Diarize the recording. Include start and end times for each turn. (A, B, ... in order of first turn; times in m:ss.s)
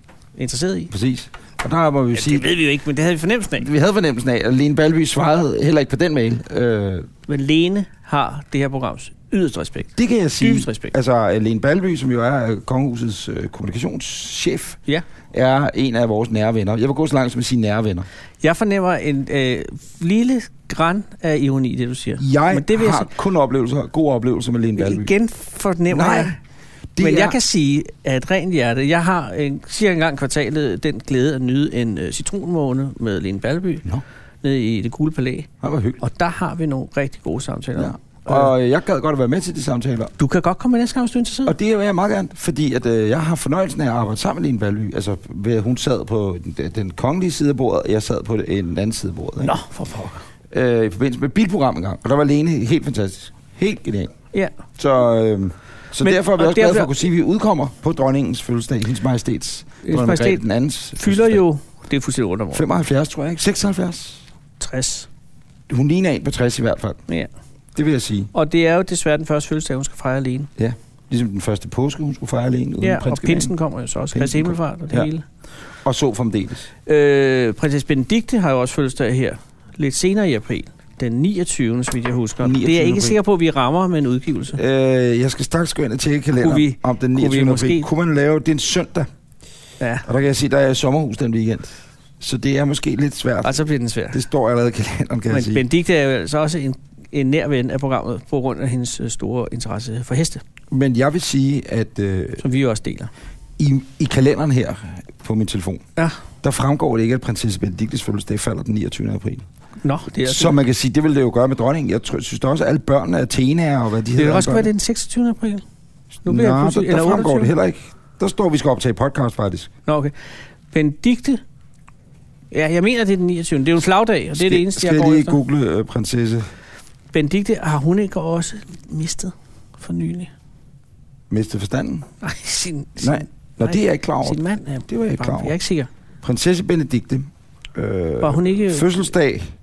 0:00.4-0:00.9 A
0:00.9-0:02.5 B
0:02.1-0:03.7 A
0:03.6-0:07.1 B
0:07.3-0:10.9 A
0:10.0-0:14.8 B
0:15.3-0:18.1 B
0:18.4-0:23.1 A
0:22.2-0:25.1 B
0:24.8-0:26.4 A
0:25.9-0:26.4 B
0:27.0-0:27.4 B
0:27.0-0:33.9 A
0:34.4-0:35.5 A
0:35.6-0:36.0 B
0:36.0-0:38.5 A
0:37.8-0:40.1 B
0:40.2-0:41.6 A
0:41.5-0:49.6 B
0:49.4-0:50.2 A
0:50.5-0:54.1 B
0:54.8-1:01.4 B
0:56.0-0:56.9 A
0:59.8-1:00.4 A
1:01.0-1:02.7 A
1:02.5-1:04.2 B
1:04.6-1:05.1 A
1:05.7-1:07.0 B
1:07.8-1:08.3 B
1:08.3-1:10.5 A
1:10.6-1:13.5 B
1:12.8-1:15.2 A
1:14.1-1:15.1 B
1:15.8-1:16.7 B
1:16.9-1:24.6 A
1:22.4-1:23.2 B
1:24.6-1:29.1 B
1:26.4-1:27.9 A
1:30.0-1:35.6 B
1:33.4-1:34.2 A
1:35.3-1:40.4 A
1:40.7-1:42.4 B
1:42.4-1:43.1 A
1:43.6-1:45.8 B
1:46.4-1:49.5 B
1:49.8-1:50.6 A
1:50.3-1:54.7 B
1:54.2-1:55.6 A
1:56.2-1:57.5 A
1:56.2-1:59.7 B
1:59.9-2:00.1 A
2:00.7-2:01.4 A
2:02.5-2:05.4 A
2:04.3-2:06.5 B
2:07.1-2:10.3 A
2:11.3-2:12.1 B
2:12.2-2:15.9 A
2:13.0-2:15.6 B
2:16.2-2:19.5 B
2:18.2-2:19.1 A